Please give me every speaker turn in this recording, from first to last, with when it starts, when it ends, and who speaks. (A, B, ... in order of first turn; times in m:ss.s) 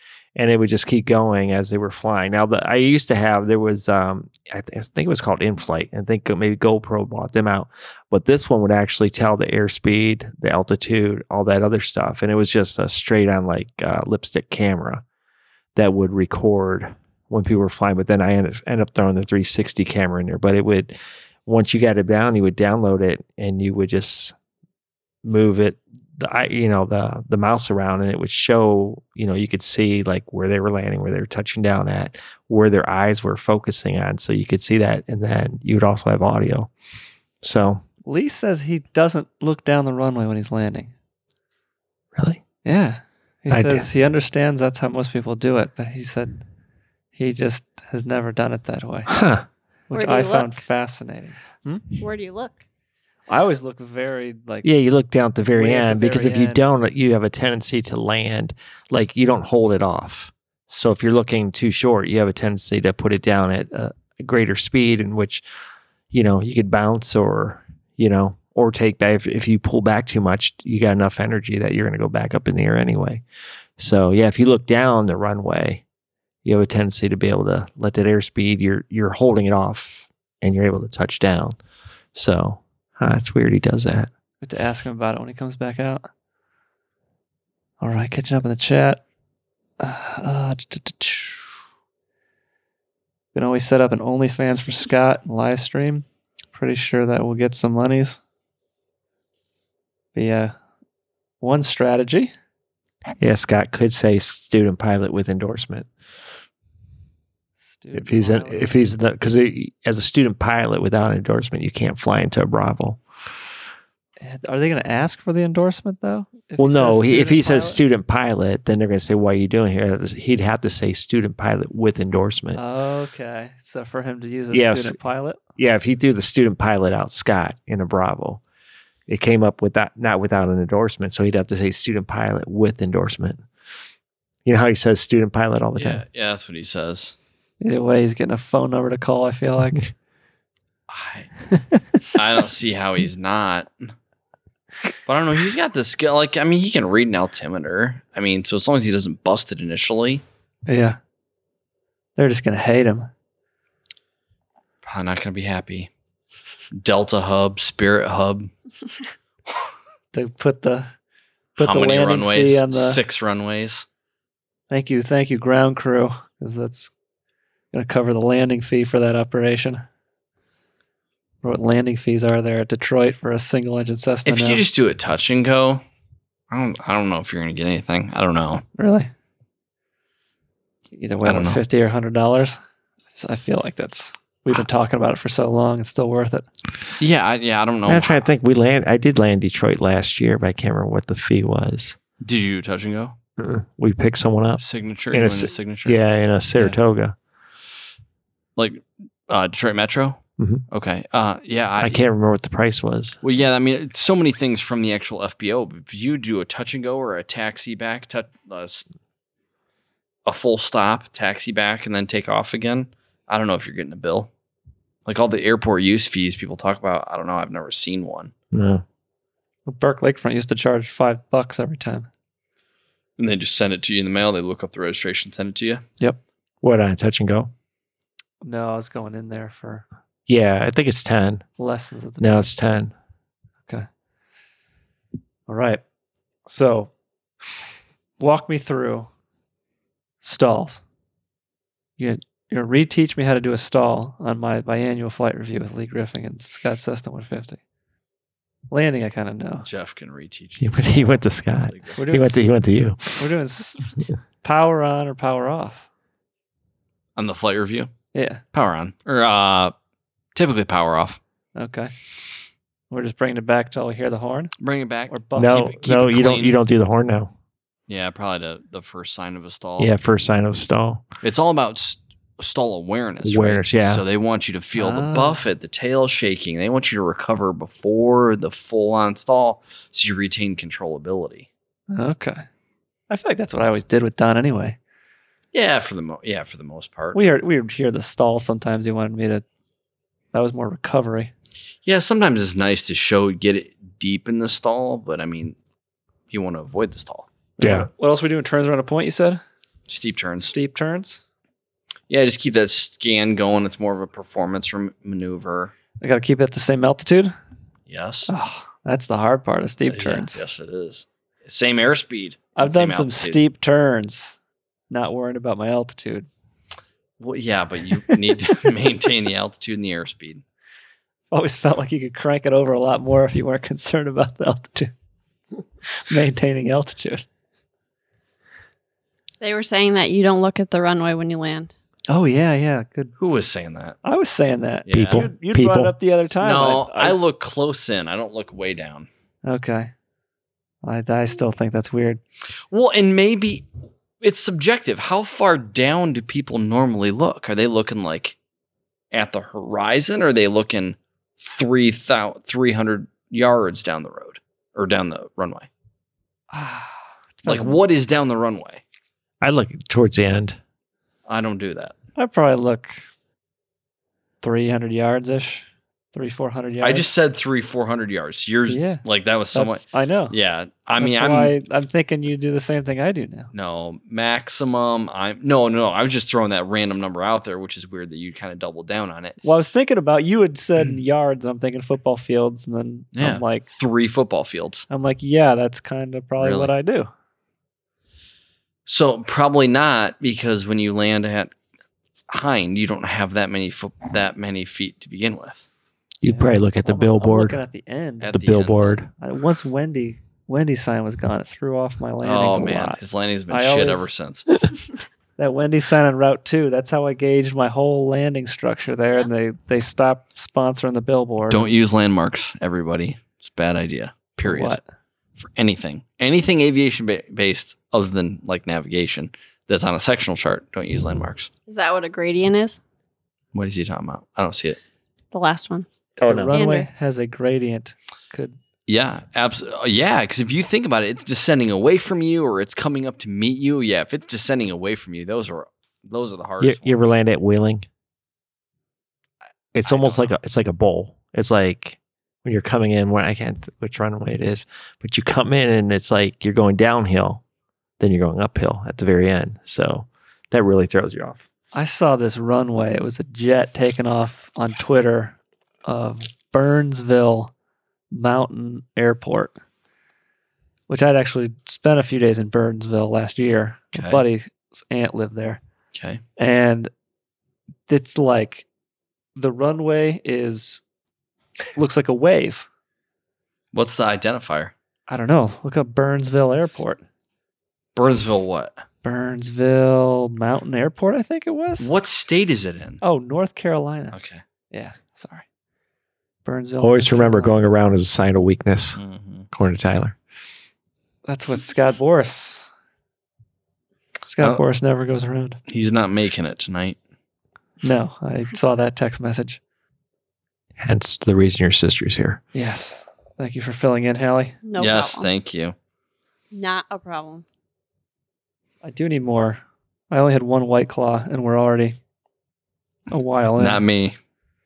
0:00.4-0:15.0 A
0:15.8-0:20.9 A
0:21.5-0:24.4 A
0:25.2-0:36.7 A
0:37.4-0:37.8 A
0:38.1-0:40.9 B
0:42.2-0:42.4 A
0:42.6-0:46.4 B
0:43.5-0:43.9 A
0:47.2-0:49.1 B
0:49.1-0:49.5 A
0:49.9-0:51.8 B
0:49.9-0:50.6 C
0:52.0-0:52.6 C
0:53.3-0:54.7 B
0:54.6-1:05.4 A
0:55.6-0:56.6 B
1:06.1-1:13.2 A
1:13.8-1:15.8 A
1:16.4-1:21.6 A
1:22.2-1:24.1 A
1:24.4-1:26.1 B
1:27.8-1:29.0 B
1:29.8-1:31.6 B
1:33.3-1:38.2 B
1:40.1-1:40.6 B
1:41.4-1:42.3 B
1:43.2-1:45.9 A
1:47.7-1:48.7 B
1:48.0-1:53.0 A
1:54.2-1:57.8 B
1:56.6-2:02.6 A
2:02.6-2:05.4 B
2:04.5-2:05.0 A
2:05.6-2:08.4 A
2:09.1-2:13.4 A
2:14.4-2:16.0 A
2:15.8-2:17.2 D
2:17.6-2:19.9 B
2:20.9-2:21.3 D
2:22.1-2:23.9 D
2:25.1-2:30.2 D
2:30.7-2:31.0 B
2:32.2-2:33.1 B
2:34.8-2:35.9 D
2:36.7-2:38.5 D
2:40.1-2:40.9 B
2:41.6-2:43.9 D
2:41.6-2:43.0 B
2:44.7-2:46.9 B
2:47.7-2:49.8 B
2:51.4-2:54.6 B
2:54.2-2:55.8 D
2:56.5-2:58.6 D
2:58.8-2:59.1 B
3:00.9-3:02.6 B
3:01.2-3:01.6 D
3:03.2-3:06.5 B
3:07.0-3:08.3 D
3:07.9-3:12.0 A
3:12.2-3:13.2 D
3:13.4-3:14.6 A
3:14.6-3:16.0 D
3:15.1-3:17.2 A
3:18.6-3:22.0 D
3:20.4-3:20.6 A
3:21.8-3:23.2 A
3:23.2-3:28.9 D
3:30.3-3:34.3 D
3:35.1-3:38.3 D
3:38.5-3:38.8 A
3:39.7-3:42.1 B
3:43.2-3:45.8 D
3:46.6-3:47.5 A
3:48.4-3:49.9 B
3:50.3-3:51.4 A
3:51.6-3:52.5 B
3:52.2-3:52.9 A
3:55.5-3:55.8 B
3:56.5-3:56.9 B
3:58.2-3:59.1 B
4:00.2-4:00.8 B
4:02.0-4:07.6 B
4:08.7-4:09.7 B
4:09.6-4:12.0 D
4:10.6-4:13.3 A
4:12.0-4:12.5 B
4:13.2-4:15.9 B
4:17.2-4:17.9 D
4:18.1-4:18.4 B
4:18.5-4:19.7 D
4:20.4-4:21.2 D
4:21.6-4:21.9 B
4:22.9-4:24.5 B
4:24.6-4:26.6 D
4:25.1-4:25.7 B
4:25.4-4:27.3 A
4:27.9-4:29.9 D
4:29.8-4:31.0 A
4:31.2-4:41.5 D
4:33.2-4:34.0 A
4:34.8-4:35.4 B
4:41.9-4:42.5 B
4:43.1-4:44.8 B
4:45.5-4:47.2 D
4:47.1-4:49.4 B
4:50.3-4:51.3 B
4:51.8-4:55.6 D
4:56.3-4:57.3 D
4:57.6-4:59.4 B
4:57.6-4:57.9 A
4:59.9-5:00.5 D
5:00.4-5:01.2 B
5:02.1-5:05.7 D
5:06.0-5:07.4 B
5:07.9-5:08.3 D
5:08.3-5:10.4 B
5:09.9-5:13.4 D
5:12.6-5:14.4 B
5:14.9-5:16.3 B
5:17.2-5:20.4 D
5:21.3-5:24.9 B
5:26.0-5:27.2 B
5:29.4-5:31.7 C
5:32.1-5:33.1 B
5:33.2-5:34.0 D
5:34.0-5:37.2 B
5:34.9-5:35.3 D
5:34.9-5:35.9 A
5:36.4-5:39.1 D
5:39.4-5:39.9 B
5:40.8-5:42.2 B
5:42.7-5:43.7 D
5:44.2-5:48.4 D
5:49.1-5:55.7 D
5:56.5-5:57.8 B
5:57.5-5:58.8 D
5:59.4-6:00.6 A
6:01.3-6:02.0 D
6:02.2-6:03.0 B
6:04.4-6:07.1 B
6:06.8-6:11.6 D
6:08.7-6:10.4 B
6:11.0-6:13.5 B
6:13.5-6:19.4 D
6:19.4-6:23.7 B
6:23.2-6:24.9 D
6:24.9-6:27.1 B
6:26.4-6:26.7 D
6:28.9-6:31.5 D
6:32.3-6:35.7 D
6:36.2-6:37.6 A
6:36.3-6:38.3 B
6:38.2-6:39.0 D
6:38.3-6:39.1 A
6:39.2-6:43.0 B
6:42.2-6:44.5 D
6:43.5-6:44.1 B
6:45.4-6:51.7 B
6:51.5-6:54.8 D
6:54.4-6:54.8 B
6:55.4-7:01.5 D
7:01.7-7:02.8 C
7:03.5-7:04.8 D
7:05.3-7:05.9 C
7:06.2-7:06.5 A
7:06.2-7:08.6 B
7:06.5-7:06.9 C
7:08.9-7:17.2 D
7:16.6-7:17.9 A
7:19.8-7:27.4 A
7:19.8-7:20.4 D
7:28.0-7:31.4 A
7:31.7-7:37.5 B
7:38.1-7:39.6 B
7:40.9-7:45.6 B
7:44.0-7:44.2 D
7:45.9-7:46.2 D
7:46.4-7:46.9 B
7:47.9-7:48.7 B
7:49.4-7:50.8 B
7:51.8-7:52.7 B
7:53.7-7:54.7 D
7:55.1-7:57.0 B
7:58.0-7:58.8 D
7:59.0-8:01.9 B
8:01.8-8:03.0 D
8:03.0-8:04.2 B
8:04.1-8:04.4 D
8:04.7-8:05.4 B
8:06.4-8:07.6 B
8:06.8-8:09.0 A
8:09.0-8:09.5 D
8:09.5-8:10.2 A
8:11.3-8:12.7 B
8:14.2-8:15.6 B
8:15.7-8:17.0 D
8:17.8-8:19.6 B
8:20.8-8:22.4 A
8:22.5-8:24.6 B
8:24.6-8:25.3 C
8:24.8-8:25.8 D
8:26.5-8:27.4 C
8:28.8-8:32.0 B
8:33.1-8:33.8 B
8:33.6-8:34.2 D